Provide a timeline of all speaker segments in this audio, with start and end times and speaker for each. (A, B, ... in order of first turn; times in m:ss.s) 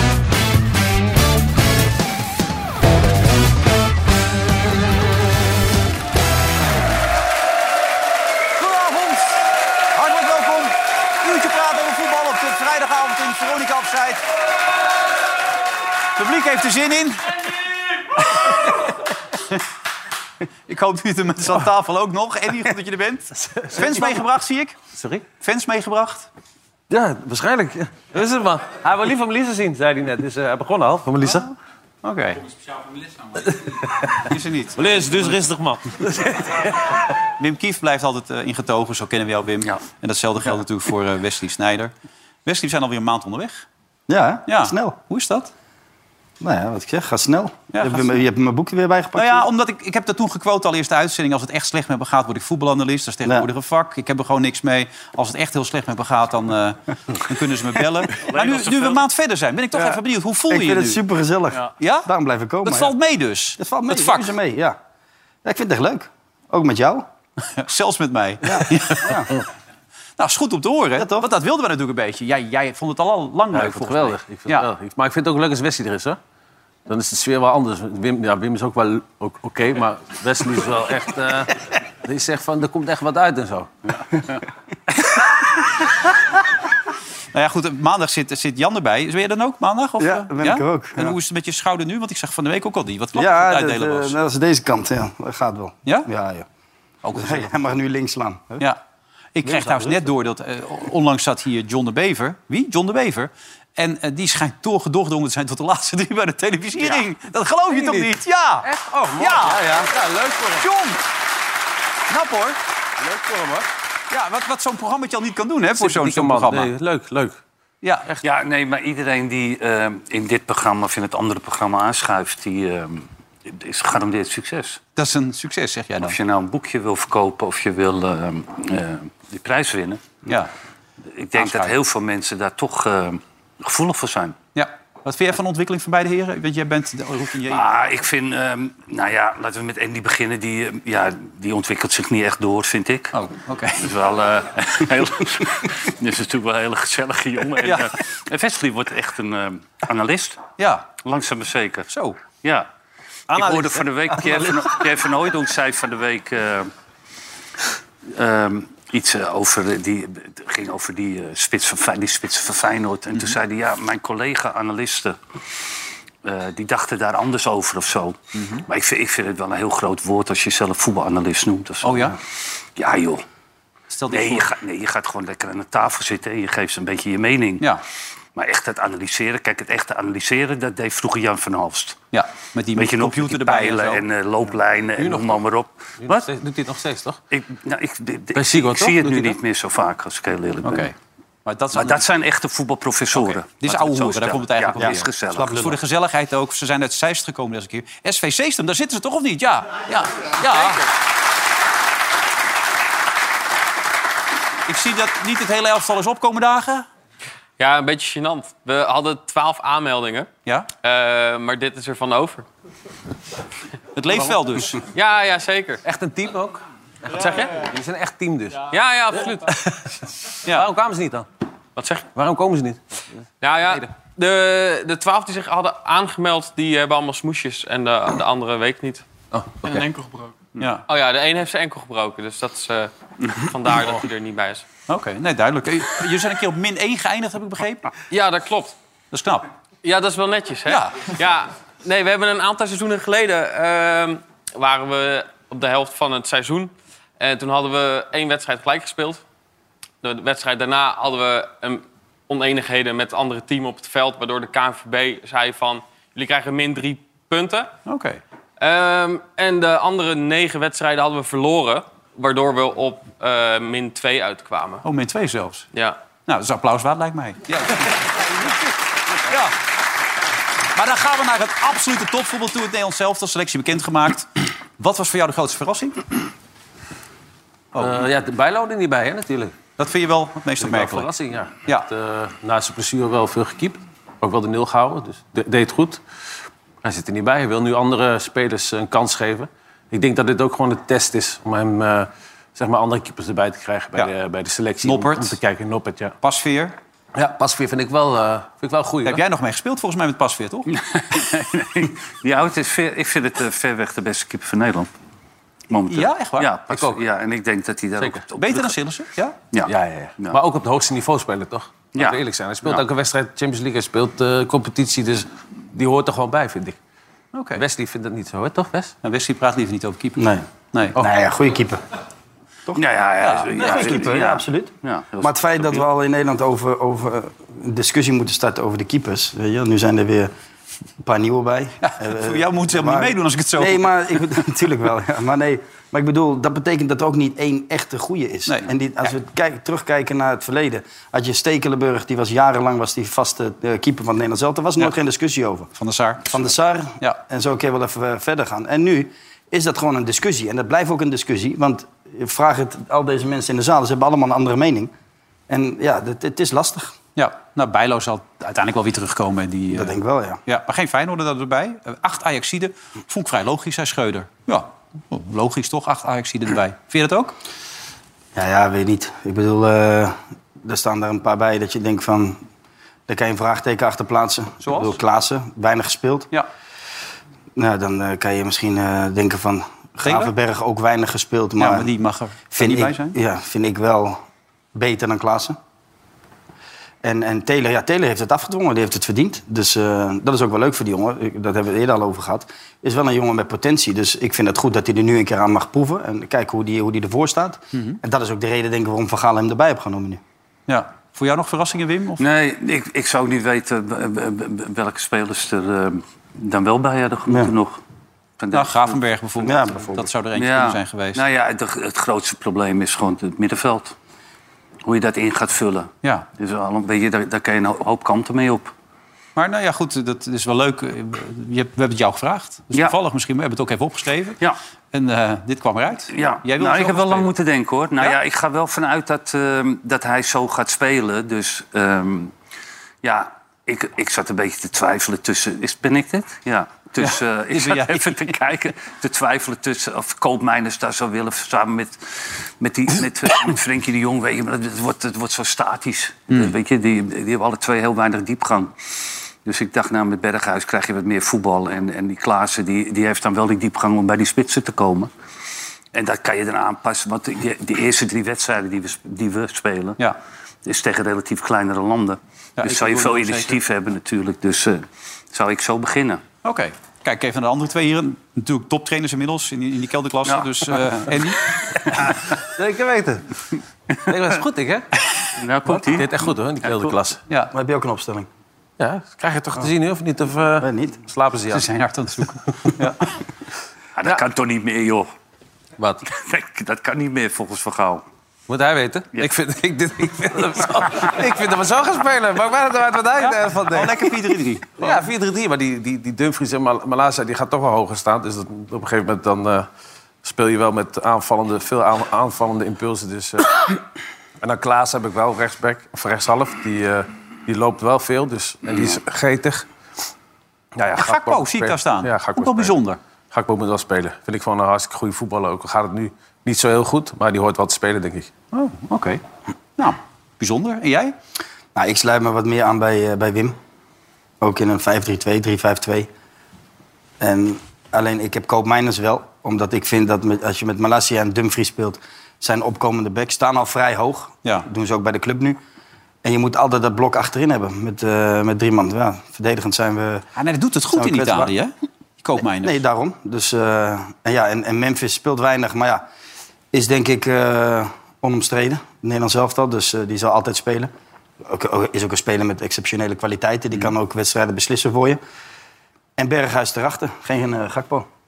0:08.6-0:14.2 A
0:16.2-0:17.4 A
0:18.2-0:19.6 A
0:20.7-0:24.8 A
0:23.6-0:24.2 B
0:24.9-0:25.2 B
0:25.4-0:26.3 A
0:26.9-0:31.5 B
0:31.2-0:32.5 A
0:33.4-0:37.1 B
0:34.2-0:35.4 A
0:37.4-0:41.9 A
0:42.4-0:43.6 A
0:44.1-0:45.0 C
0:44.5-0:45.5 A
0:46.4-0:49.4 C
0:47.7-0:48.1 A
0:49.1-1:01.0 A
0:58.2-0:59.0 D
1:00.5-1:02.9 C
1:01.8-1:02.1 A
1:02.6-1:04.3 A
1:03.6-1:04.8 C
1:05.4-1:07.0 C
1:07.5-1:09.4 A
1:08.4-1:09.3 C
1:10.2-1:14.7 A
1:11.0-1:11.3 C
1:13.5-1:16.2 B
1:16.9-1:23.7 B
1:27.3-1:34.2 A
1:30.0-1:31.2 C
1:33.1-1:36.4 C
1:37.0-1:37.5 A
1:37.2-1:38.6 C
1:39.3-1:49.8 A
1:39.4-1:40.0 C
1:47.7-1:48.1 B
1:48.6-1:50.7 B
1:50.6-1:51.0 A
1:52.1-1:52.6 A
1:53.0-1:53.6 B
1:54.1-1:56.7 A
1:55.8-1:57.4 B
1:57.8-1:58.1 A
1:58.2-2:04.8 D
2:05.0-2:06.2 A
2:06.0-2:10.2 D
2:10.2-2:10.5 A
2:11.1-2:14.4 D
2:11.4-2:11.7 A
2:14.5-2:17.6 A
2:17.5-2:23.2 D
2:23.1-2:23.9 A
2:23.8-2:30.4 D
2:27.6-2:27.9 A
2:30.6-2:30.9 A
2:31.0-2:31.9 D
2:31.9-2:32.2 A
2:32.4-2:32.7 D
2:33.3-2:36.7 D
2:33.3-2:33.7 B
2:38.1-2:45.2 D
2:46.2-2:52.2 D
2:48.3-2:48.6 A
2:51.8-2:52.2 A
2:52.8-2:53.2 D
2:53.9-2:54.5 A
2:54.1-2:57.8 D
2:58.3-3:02.0 D
3:02.1-3:04.0 A
3:02.8-3:06.3 D
3:05.0-3:05.4 B
3:06.0-3:07.2 B
3:07.3-3:10.9 D
3:08.3-3:09.4 B
3:10.6-3:12.0 A
3:11.7-3:15.8 D
3:13.1-3:20.9 A
3:14.8-3:15.4 C
3:24.6-3:26.9 A
3:27.6-3:32.4 E
3:33.9-3:34.8 A
3:34.9-3:35.8 E
3:35.8-3:38.7 B
3:38.7-3:39.5 E
3:39.4-3:41.2 B
3:41.8-3:42.1 E
3:42.1-3:43.0 B
3:43.4-3:49.0 E
3:49.3-3:49.8 B
3:49.6-3:50.3 E
3:50.6-3:50.8 A
3:50.9-3:54.6 E
3:54.9-3:57.9 A
3:58.1-3:58.7 E
3:59.1-3:59.4 A
3:59.8-4:09.2 E
4:00.6-4:01.1 A
4:10.0-4:17.7 E
4:17.8-4:18.2 A
4:18.6-4:24.8 E
4:24.8-4:25.7 A
4:25.7-4:26.0 E
4:26.2-4:28.5 A
4:29.2-4:29.6 A
4:30.7-4:36.0 A
4:37.7-4:38.0 A
4:37.7-4:39.6 B
4:39.8-4:41.1 A
4:40.6-4:46.0 B
4:46.8-4:56.2 B
4:54.8-4:55.4 A
4:56.2-4:56.8 A
4:57.1-4:59.2 B
4:59.0-5:00.7 A
5:00.7-5:04.9 D
5:05.7-5:08.8 D
5:05.9-5:06.5 A
5:06.7-5:07.0 B
5:08.4-5:09.4 A
5:09.5-5:10.4 D
5:09.6-5:16.8 B
5:11.9-5:12.8 D
5:17.3-5:17.6 A
5:17.5-5:18.9 B
5:19.0-5:21.0 A
5:20.2-5:20.4 C
5:21.0-5:21.8 C
5:22.8-5:25.8 D
5:23.2-5:23.8 A
5:23.5-5:30.3 C
5:31.0-5:45.7 C
5:31.8-5:34.3 A
5:45.8-5:47.2 A
5:46.2-5:54.9 C
5:55.5-5:57.0 C
5:57.2-6:07.3 A
5:59.7-6:00.4 C
6:08.3-6:12.4 C
6:13.1-6:16.3 C
6:14.6-6:15.0 A
6:17.6-6:21.9 C
6:20.0-6:20.3 A
6:21.6-6:23.2 A
6:22.5-6:24.2 C
6:24.7-6:25.6 C
6:27.0-6:40.2 C
6:40.7-6:42.2 A
6:42.2-6:47.8 D
6:48.4-6:49.0 D
6:48.5-6:51.2 A
6:49.4-6:50.1 C
6:50.3-6:54.0 D
6:54.8-6:58.7 D
6:59.4-7:04.4 A
7:04.9-7:07.3 A
7:06.1-7:12.3 D
7:13.0-7:28.7 D
7:17.0-7:18.3 A
7:29.4-7:35.1 D
7:35.9-7:40.0 D
7:40.6-7:46.2 D
7:42.6-7:43.6 B
7:46.4-7:51.9 A
7:50.2-7:50.8 D
7:52.4-7:53.4 B
7:54.0-7:55.0 B
7:55.4-7:56.2 D
7:55.7-7:57.2 B
7:57.5-7:58.3 C
7:58.8-8:01.7 B
8:00.6-8:01.0 C
8:01.5-8:03.1 A
8:04.0-8:05.1 D
8:05.8-8:06.0 B
8:06.1-8:08.0 D
8:08.5-8:14.2 B
8:13.2-8:14.9 A
8:14.8-8:19.7 B
8:20.2-8:23.8 B
8:24.4-8:29.6 B
8:30.7-8:32.8 B
8:31.0-8:33.0 A
8:33.3-8:38.3 B
8:38.5-8:39.2 A
8:39.8-8:41.2 A
8:41.7-8:43.6 C
8:44.4-8:46.1 C
8:47.2-8:55.6 C
8:56.2-9:00.2 C
9:00.3-9:02.8 A
9:00.9-9:01.5 C
9:02.6-9:06.0 C
9:06.7-9:10.9 C
9:11.4-9:15.2 C
9:16.2-9:18.1 C